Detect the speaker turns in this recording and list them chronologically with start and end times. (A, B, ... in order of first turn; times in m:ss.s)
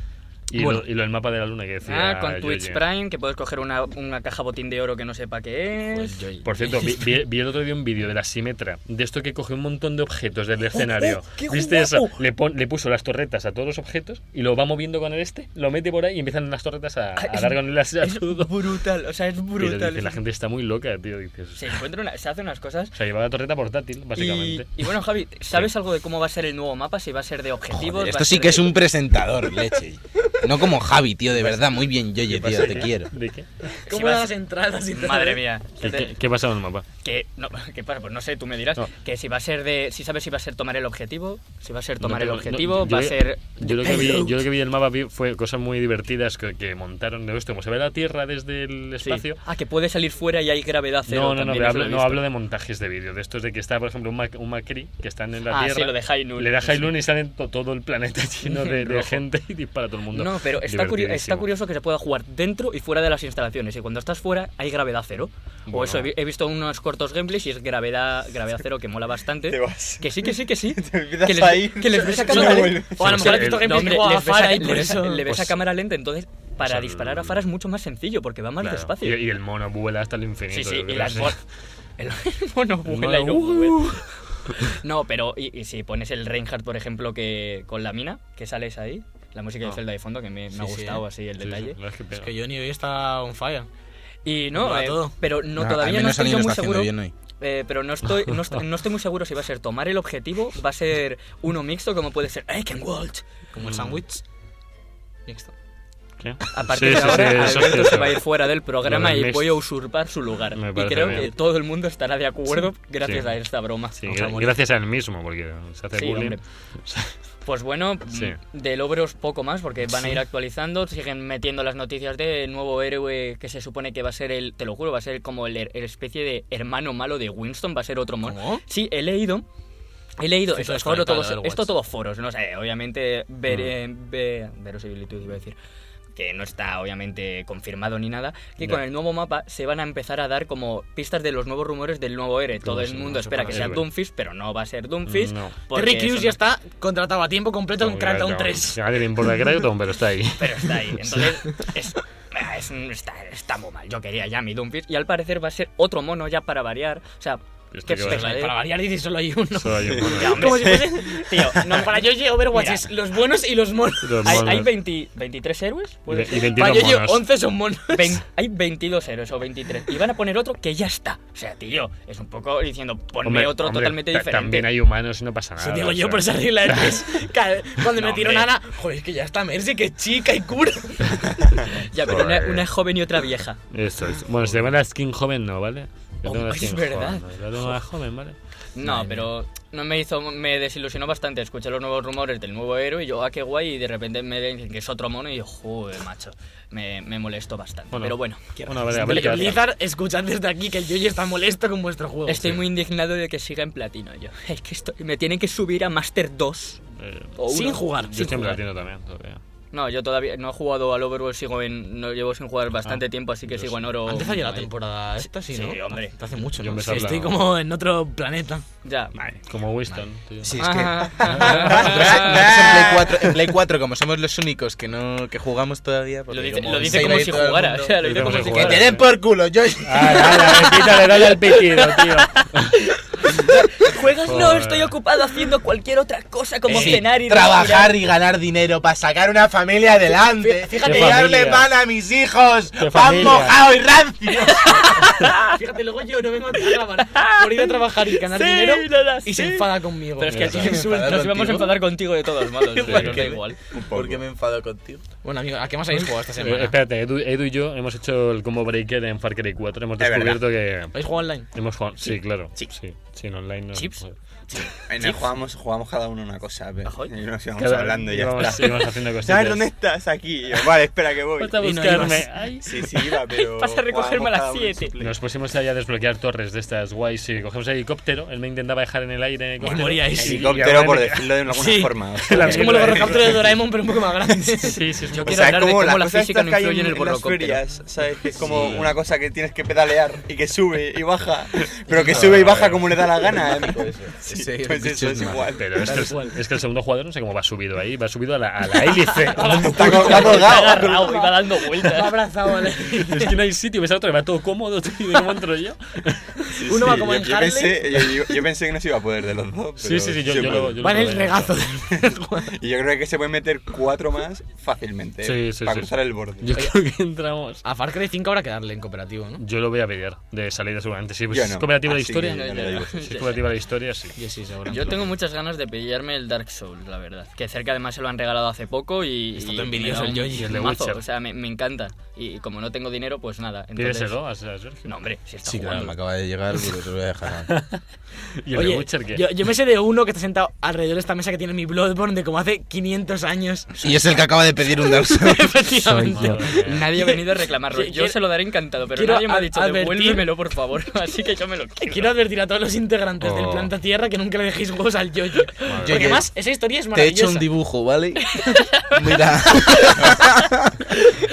0:00.5-0:02.8 A
0:00.6-0:00.8 B
0:01.8-0:06.3 C
0:06.0-0:06.9 B
0:06.4-0:18.6 A
0:10.7-0:12.2 C
0:17.2-0:20.2 C
0:19.6-0:21.8 A
0:21.6-0:22.9 C
0:22.9-0:24.8 A
0:24.2-0:28.8 C
0:27.7-0:33.1 D
0:32.3-0:33.5 A
0:33.8-0:35.4 B
0:33.9-0:34.3 C
0:35.0-0:36.1 C
0:35.8-0:36.8 A
0:37.0-0:44.3 C
0:42.0-0:49.4 A
0:43.8-0:44.1 B
0:49.0-0:52.2 C
0:51.1-1:01.5 A
0:55.5-0:56.9 C
0:58.4-0:59.2 C
1:00.1-1:19.2 C
1:05.7-1:06.1 A
1:09.5-1:13.3 E
1:12.1-1:15.3 B
1:13.0-1:14.0 A
1:15.3-1:15.5 A
1:16.6-1:17.4 A
1:18.6-1:21.4 A
1:20.5-1:21.4 C
1:22.0-1:24.0 C
1:22.8-1:24.7 A
1:24.6-1:31.8 C
1:30.6-1:31.0 B
1:31.4-1:32.3 A
1:32.1-1:33.7 B
1:34.2-1:43.2 C
1:34.5-1:35.1 B
1:35.5-1:37.1 D
1:43.5-1:44.2 B
1:43.6-1:44.0 A
1:45.2-1:45.5 B
1:46.2-1:48.2 A
1:46.5-1:54.0 C
1:46.9-1:47.8 B
1:48.8-1:49.6 A
1:50.6-1:51.3 A
1:51.0-1:51.3 B
1:54.0-1:57.1 A
1:54.0-1:54.5 B
1:55.9-1:56.4 C
1:57.4-2:09.4 C
1:58.1-1:58.4 A
1:59.9-2:00.2 B
2:08.2-2:08.6 B
2:10.2-2:15.6 C
2:10.5-2:11.7 B
2:13.5-2:13.7 A
2:16.2-2:26.4 C
2:22.6-2:23.8 A
2:25.1-2:25.6 A
2:25.7-2:28.8 B
2:27.8-2:31.4 A
2:30.4-2:38.6 C
2:37.7-2:38.5 A
2:38.0-2:44.4 B
2:39.5-2:40.5 A
2:39.8-2:41.2 E
2:40.0-2:42.8 C
2:44.0-2:44.7 A
2:44.2-2:46.4 C
2:46.1-2:47.3 A
2:46.3-2:48.2 B
2:47.9-2:54.7 C
2:53.2-2:57.0 A
2:55.6-3:01.5 B
2:57.9-2:58.5 C
3:01.7-3:03.6 C
3:02.0-3:02.7 A
3:03.7-3:08.4 A
3:06.2-3:07.8 C
3:08.7-3:19.6 C
3:08.8-3:09.3 B
3:17.9-3:19.6 A
3:18.6-3:19.5 E
3:18.9-3:22.4 B
3:22.2-3:26.8 C
3:27.0-3:27.3 A
3:27.4-3:28.6 C
3:27.5-3:28.5 B
3:28.1-3:29.4 A
3:29.7-3:36.1 C
3:32.8-3:33.9 A
3:34.1-3:38.6 B
3:36.6-3:37.4 A
3:38.8-3:39.1 C
3:39.4-3:40.6 A
3:40.4-3:50.6 D
3:40.6-3:42.7 C
3:41.3-3:41.9 A
3:41.3-3:42.9 B
3:46.3-3:49.0 C
3:48.0-3:49.1 A
3:49.8-3:52.7 A
3:50.6-3:58.0 C
3:54.2-3:54.9 A
3:56.7-3:57.0 B
3:56.7-4:05.1 D
4:00.2-4:01.6 B
4:00.8-4:01.6 A
4:02.8-4:03.6 A
4:04.6-4:05.6 C
4:05.3-4:11.7 B
4:06.5-4:13.6 C
4:10.3-4:10.7 A
4:10.5-4:11.9 D
4:12.8-4:15.0 D
4:12.9-4:13.2 A
4:13.7-4:14.2 E
4:15.2-4:16.8 B
4:16.4-4:24.1 A
4:20.0-4:20.4 E
4:20.9-4:21.5 B
4:23.7-4:24.0 C
4:24.5-4:25.2 C
4:24.9-4:31.6 E
4:26.8-4:27.1 C
4:27.6-4:29.7 A
4:31.4-4:33.0 A
4:31.6-4:32.3 B
4:32.6-4:35.2 E
4:33.2-4:34.9 C
4:35.0-4:41.4 A
4:39.6-4:40.5 B
4:39.6-4:43.5 E
4:41.5-4:44.8 B
4:42.2-4:43.4 A
4:44.3-4:56.2 E
4:44.6-4:45.5 A
4:45.1-4:47.6 C
4:48.4-4:49.0 A
4:51.9-4:53.1 A
4:53.4-4:55.5 D
4:55.6-5:00.5 A
4:55.8-4:56.4 B
4:59.3-5:03.3 B
4:59.4-5:01.2 E
4:59.4-5:02.1 C
5:03.0-5:06.9 A
5:06.5-5:10.8 E
5:06.7-5:08.2 B
5:09.8-5:11.5 A
5:10.8-5:12.5 B
5:12.4-5:16.5 E
5:15.2-5:17.6 A
5:17.6-5:19.4 B
5:19.4-5:24.2 A
5:21.3-5:23.2 E
5:22.1-5:23.4 C
5:24.2-5:25.1 B
5:24.7-5:34.1 C
5:29.4-5:30.5 B
5:30.0-5:31.0 A
5:33.8-5:34.8 A
5:34.8-5:35.9 C
5:35.4-5:37.6 D
5:37.5-5:37.8 A
5:38.4-5:39.4 A
5:38.5-5:43.8 B
5:43.8-5:46.0 D
5:45.0-5:48.2 B
5:45.6-5:52.1 C
5:46.1-5:46.8 A
5:48.9-5:50.3 B
5:51.8-5:57.5 B
5:53.2-5:53.7 A
5:55.6-5:56.1 A
5:55.8-5:56.3 D
5:56.9-6:00.7 D
5:58.4-5:59.0 C
5:59.6-5:59.9 C